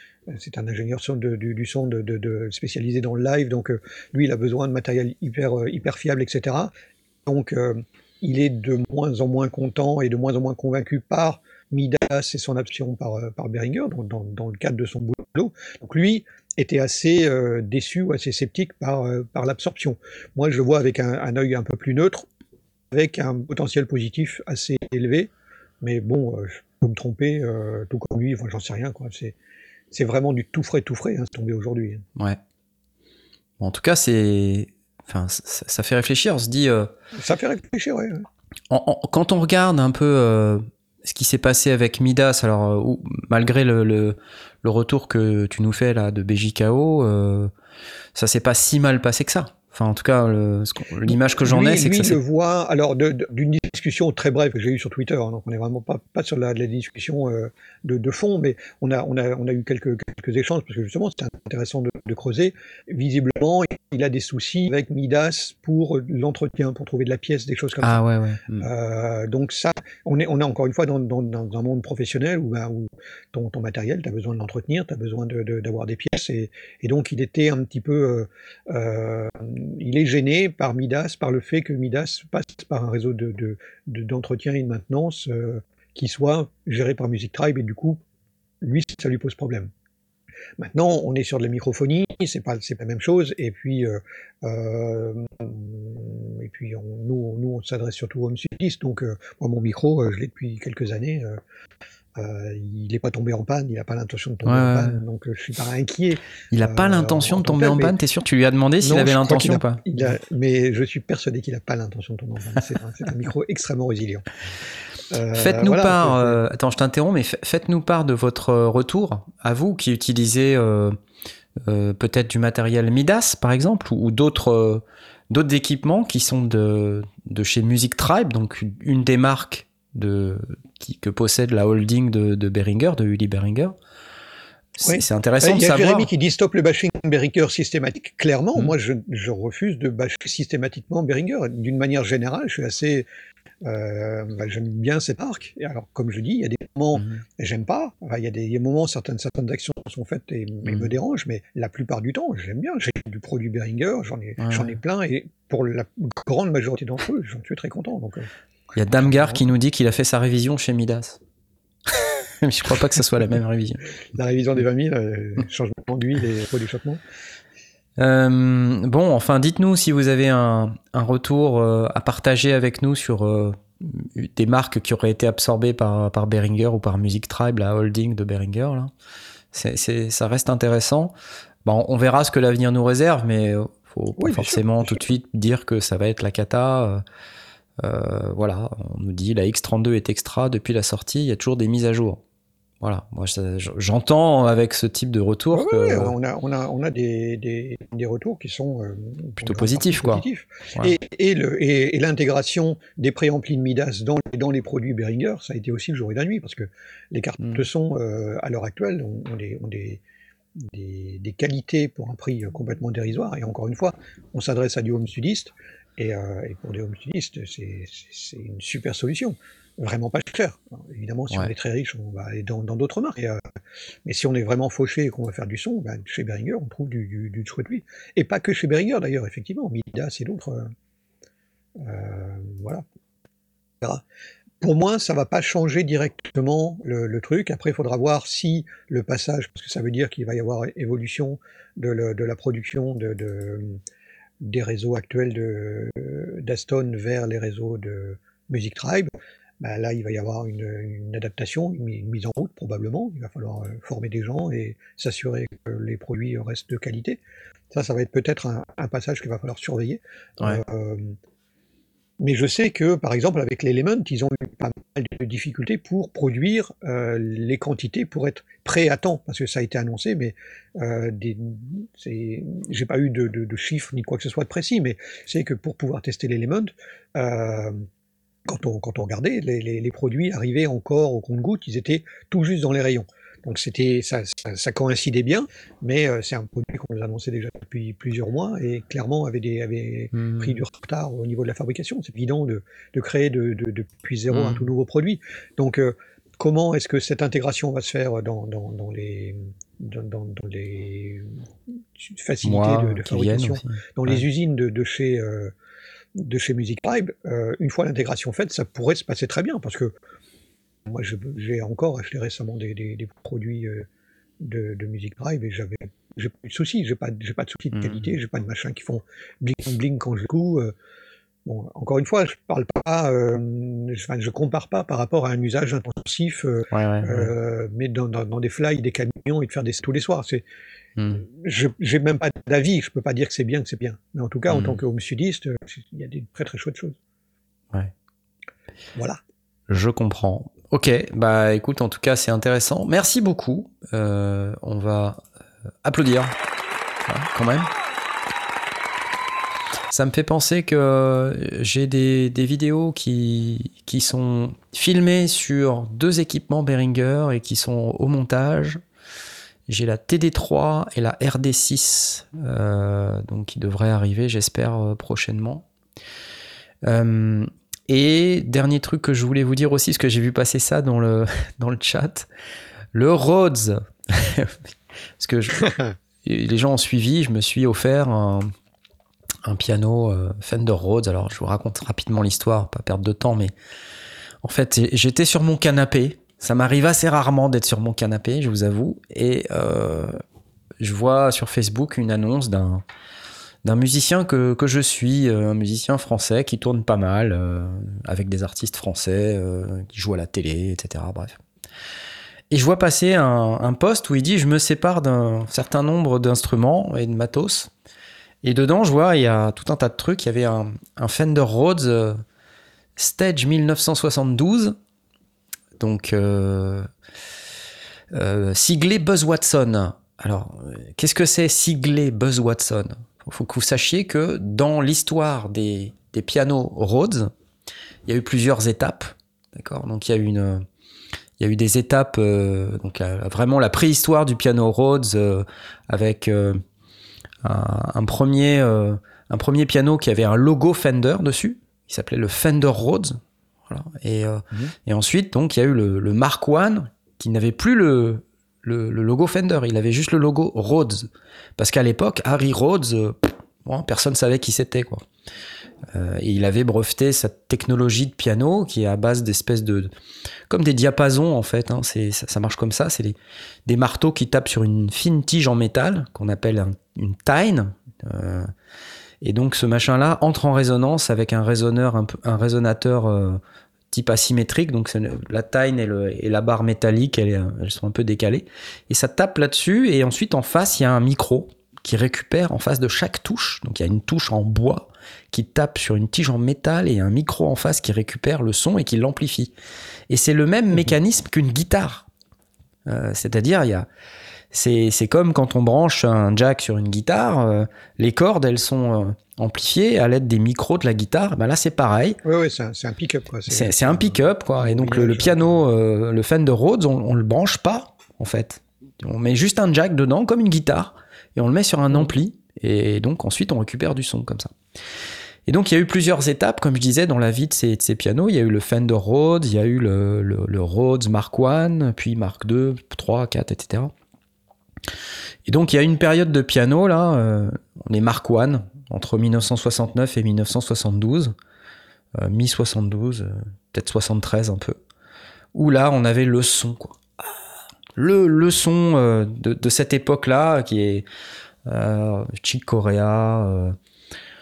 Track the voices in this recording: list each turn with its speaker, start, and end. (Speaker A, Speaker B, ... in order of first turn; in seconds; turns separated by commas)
Speaker A: 0.3-6.7, Speaker A: 7.2-22.3, Speaker A: 22.9-25.3, Speaker A: 25.8-29.4, Speaker A: 29.9-32.0, Speaker B: 33.6-36.9, Speaker A: 37.2-38.3, Speaker B: 38.7-47.5, Speaker B: 48.1-52.2, Speaker A: 51.0-68.0, Speaker B: 67.8-68.7, Speaker A: 68.6-88.0, Speaker A: 88.6-89.7, Speaker A: 90.6-101.4, Speaker A: 102.2-107.9, Speaker B: 104.4-105.0, Speaker B: 106.5-109.8, Speaker A: 108.8-114.2, Speaker A: 115.1-116.4, Speaker B: 115.3-121.0, Speaker B: 121.6-133.7, Speaker B: 134.8-136.1, Speaker A: 134.8-143.1, Speaker A: 143.6-158.3, Speaker B: 146.9-147.2, Speaker B: 154.4-154.7, Speaker B: 158.8-161.2, Speaker A: 158.9-159.4, Speaker B: 161.9-163.8, Speaker A: 164.1-167.0, Speaker B: 168.0-178.9, Speaker B: 179.5-181.1, Speaker B: 181.6-187.0, Speaker A: 184.2-185.0, Speaker B: 187.8-192.2, Speaker B: 192.8-196.1, Speaker A: 195.5-210.0, Speaker B: 199.4-200.9, Speaker B: 207.4-207.6, Speaker A: 210.6-223.4, Speaker A: 224.0-230.7, Speaker A: 231.8-232.8, Speaker A: 234.6-243.8, Speaker A: 244.4-249.1, Speaker A: 249.6-257.2, Speaker A: 257.7-261.1, Speaker A: 262.2-277.9, Speaker A: 278.4-301.4, Speaker B: 290.1-290.6, Speaker B: 294.3-294.7, Speaker A: 301.9-305.5, Speaker B: 302.4-304.2, Speaker A: 306.1-309.9, Speaker A: 310.9-313.9, Speaker A: 314.4-320.7, Speaker B: 317.7-318.1, Speaker A: 321.4-330.4, Speaker B: 326.7-327.3, Speaker B: 331.0-331.2, Speaker A: 331.2-337.0, Speaker B: 334.5-334.8, Speaker A: 338.9-339.2, Speaker B: 339.7-345.2, Speaker B: 345.8-346.4, Speaker B: 347.1-347.7, Speaker B: 349.9-358.8, Speaker B: 359.7-365.7, Speaker B: 366.8-372.3, Speaker B: 372.9-378.5, Speaker B: 379.4-383.5, Speaker B: 384.4-390.2, Speaker B: 390.8-392.8, Speaker B: 393.6-401.4, Speaker B: 402.5-407.7, Speaker B: 408.4-412.2, Speaker B: 413.0-414.8, Speaker B: 415.8-416.9, Speaker B: 418.1-427.3, Speaker B: 428.1-430.6, Speaker B: 431.4-436.6, Speaker B: 437.4-455.1, Speaker B: 455.9-459.9, Speaker B: 460.5-468.5, Speaker B: 469.2-473.4, Speaker B: 473.9-489.5, Speaker B: 490.1-492.1, Speaker B: 492.9-493.9, Speaker B: 494.5-502.2, Speaker A: 502.2-505.6, Speaker B: 503.5-514.5, Speaker B: 515.5-523.9, Speaker B: 525.5-531.3, Speaker B: 532.1-534.8, Speaker B: 535.5-537.0, Speaker B: 538.0-541.0, Speaker B: 541.6-543.8